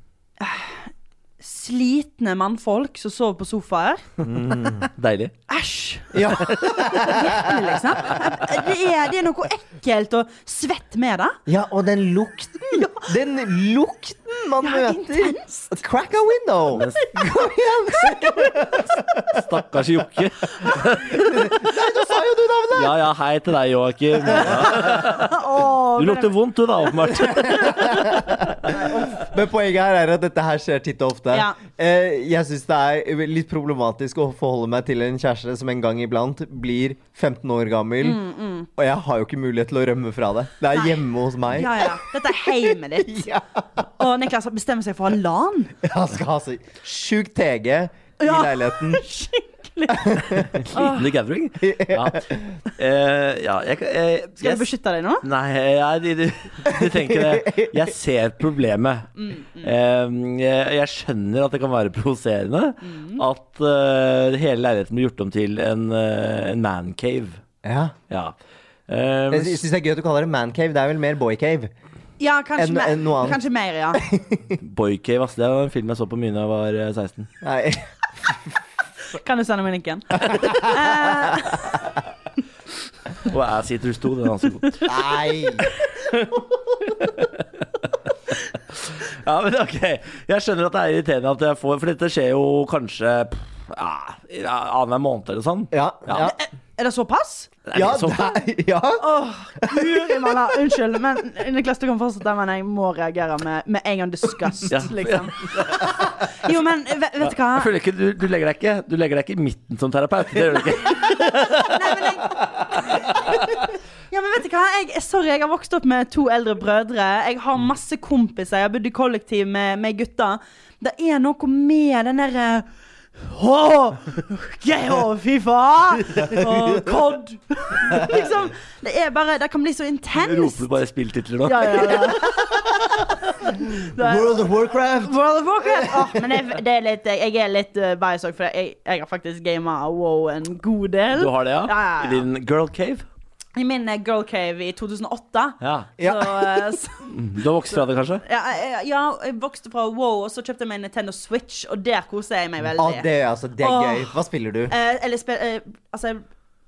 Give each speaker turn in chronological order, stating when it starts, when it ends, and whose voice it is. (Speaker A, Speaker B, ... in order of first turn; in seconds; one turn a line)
Speaker A: 0.4-4.0
Speaker B: 4.2-4.9
Speaker C: 4.8-5.3
Speaker A: 5.5-6.2
Speaker B: 6.1-7.5
Speaker C: 6.5-6.9
Speaker A: 6.8-11.4
Speaker B: 11.5-19.0
Speaker A: 12.7-13.1
Speaker A: 14.6-15.8
Speaker C: 16.7-17.1
Speaker A: 18.0-18.7
Speaker C: 19.3-21.6
Speaker B: 21.1-23.0
Speaker C: 22.7-28.0
Speaker A: 24.3-26.3
Speaker B: 24.4-24.8
Speaker B: 27.2-38.2
Speaker A: 31.3-31.6
Speaker A: 38.0-38.7
Speaker B: 38.8-41.9
Speaker A: 41.5-43.3
Speaker B: 43.0-43.4
Speaker A: 44.0-45.8
Speaker B: 45.8-49.0
Speaker A: 48.2-51.1
Speaker B: 49.9-50.6
Speaker C: 50.5-54.6
Speaker B: 51.6-52.5
Speaker A: 54.4-55.2
Speaker C: 55.2-67.4
Speaker B: 56.7-57.7
Speaker A: 59.2-59.7
Speaker A: 62.8-63.2
Speaker B: 67.6-67.9
Speaker C: 68.9-69.6
Speaker B: 69.3-71.7
Speaker A: 72.2-74.0
Speaker B: 72.6-73.4
Speaker B: 73.9-74.6
Speaker C: 74.6-77.3
Speaker B: 77.4-78.5
Speaker A: 79.1-81.8
Speaker B: 80.2-81.4
Speaker C: 83.2-84.9
Speaker B: 84.8-85.7
Speaker C: 88.7-96.3
Speaker B: 95.7-96.3
Speaker A: 96.1-97.5
Speaker C: 97.6-98.3
Speaker B: 97.7-99.0
Speaker A: 99.0-107.7
Speaker B: 99.6-100.3
Speaker C: 104.7-105.9
Speaker C: 107.2-113.1
Speaker A: 110.8-122.7
Speaker A: 123.2-130.6
Speaker C: 130.1-132.1
Speaker A: 131.4-142.3
Speaker B: 133.6-136.2
Speaker C: 141.1-143.0
Speaker A: 143.6-147.1
Speaker C: 145.6-145.9
Speaker B: 146.0-146.7
Speaker C: 147.1-148.2
Speaker A: 148.2-153.1
Speaker B: 152.8-154.7
Speaker A: 153.6-154.2
Speaker A: 154.7-156.2